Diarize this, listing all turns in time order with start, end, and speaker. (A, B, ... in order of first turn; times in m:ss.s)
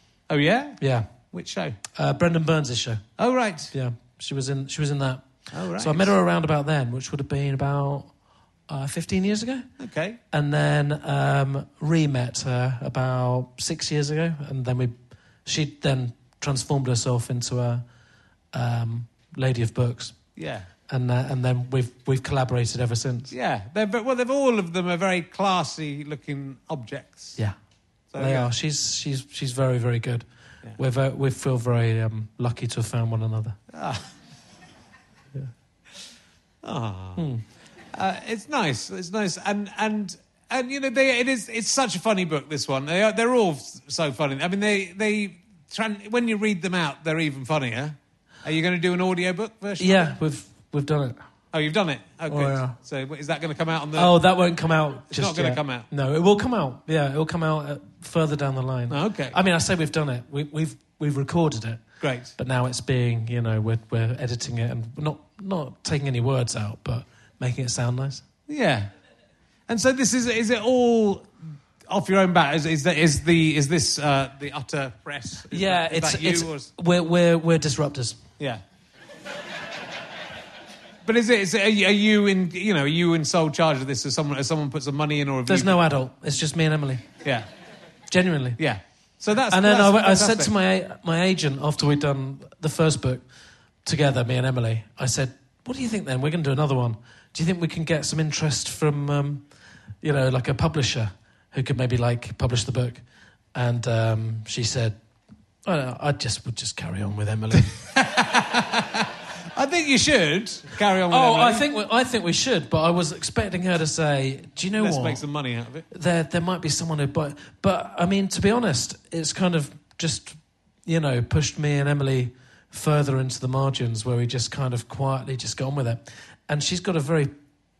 0:00.3-0:01.8 A
0:00.8-0:01.1 B
0:01.9-0:03.2 B
0:03.2-0:03.7 A
0:03.7-0:08.1 B
0:05.5-0:06.1 A
0:08.7-0:09.7 B
0:09.8-0:10.2 A
0:10.3-0:14.9 B
0:15.4-0:17.8 B
0:18.5-0:20.2 B
0:20.4-0:20.7 A
0:20.9-0:23.3 B
0:23.3-0:27.4 A
0:28.1-0:28.5 A
0:28.2-0:30.2 B
0:30.8-0:33.6 B
0:33.7-0:34.0 A
0:36.6-0:37.2 A
0:37.2-0:37.4 B
0:37.9-0:50.1 A
0:49.8-0:51.2 B
0:51.5-0:54.1 A
0:52.3-0:52.8 B
0:54.0-1:08.2 B
0:55.1-0:55.9 A
0:58.9-0:59.4 A
1:02.0-1:02.3 A
1:08.5-1:08.9 A
1:09.7-1:11.3 A
1:11.9-1:16.7 A
1:15.5-1:18.2 B
1:21.0-1:25.8 A
1:25.5-1:27.0 B
1:28.1-1:28.6 B
1:28.6-1:30.5 A
1:29.5-1:33.2 B
1:33.8-1:39.4 B
1:40.0-1:43.0 B
1:43.5-1:45.0 B
1:45.6-1:47.7 B
1:47.6-1:51.6 A
1:51.1-1:55.2 B
1:54.8-1:55.8 A
1:55.9-2:07.3 B